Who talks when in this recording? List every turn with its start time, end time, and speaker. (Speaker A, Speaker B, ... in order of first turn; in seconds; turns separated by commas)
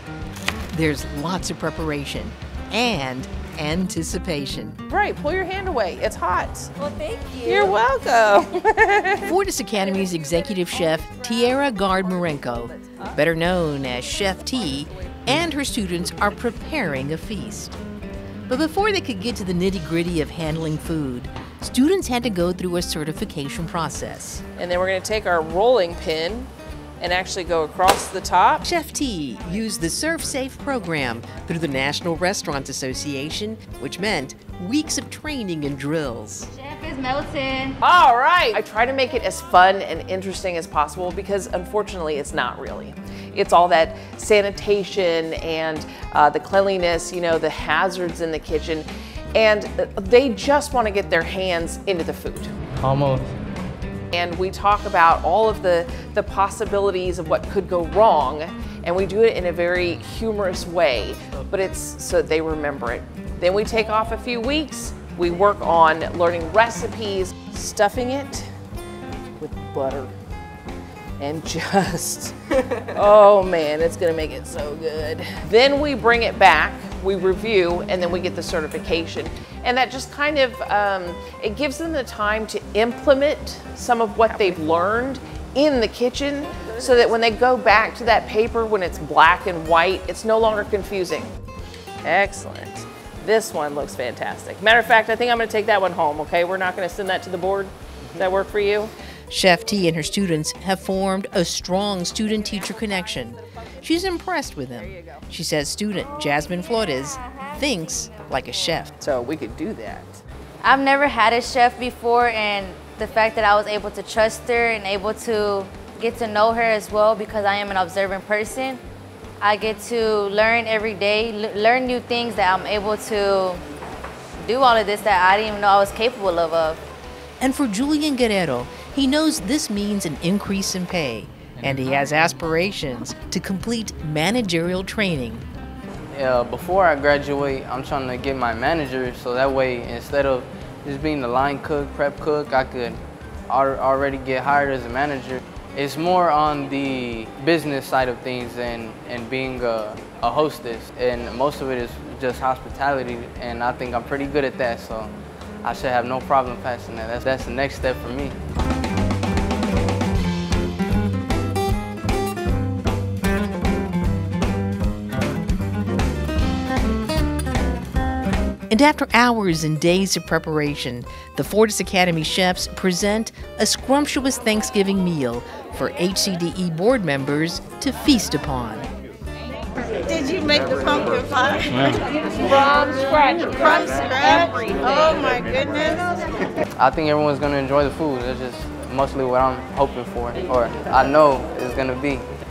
Speaker A: 0.7-4.8, Speaker B: 4.9-6.7, Speaker C: 6.8-7.8, Speaker B: 7.5-9.3, Speaker A: 9.2-17.7, Speaker B: 10.9-13.2, Speaker B: 14.0-15.2, Speaker A: 18.5-24.4, Speaker B: 24.6-28.6, Speaker A: 28.6-36.5, Speaker C: 36.5-37.8, Speaker B: 37.8-52.5, Speaker D: 52.8-53.3, Speaker B: 54.1-68.5, Speaker B: 69.4-70.1, Speaker B: 71.2-72.4, Speaker B: 72.9-91.3, Speaker B: 92.0-98.9, Speaker A: 99.3-109.0, Speaker B: 109.0-110.2, Speaker C: 110.6-118.8, Speaker C: 119.4-123.6, Speaker C: 124.4-126.8, Speaker A: 127.4-135.4, Speaker D: 136.1-155.1, Speaker D: 155.6-158.4, Speaker A: 168.7-178.9, Speaker E: 180.1-181.7, Speaker D: 181.7-182.0, Speaker B: 182.2-185.3, Speaker E: 185.0-186.1, Speaker D: 186.8-192.2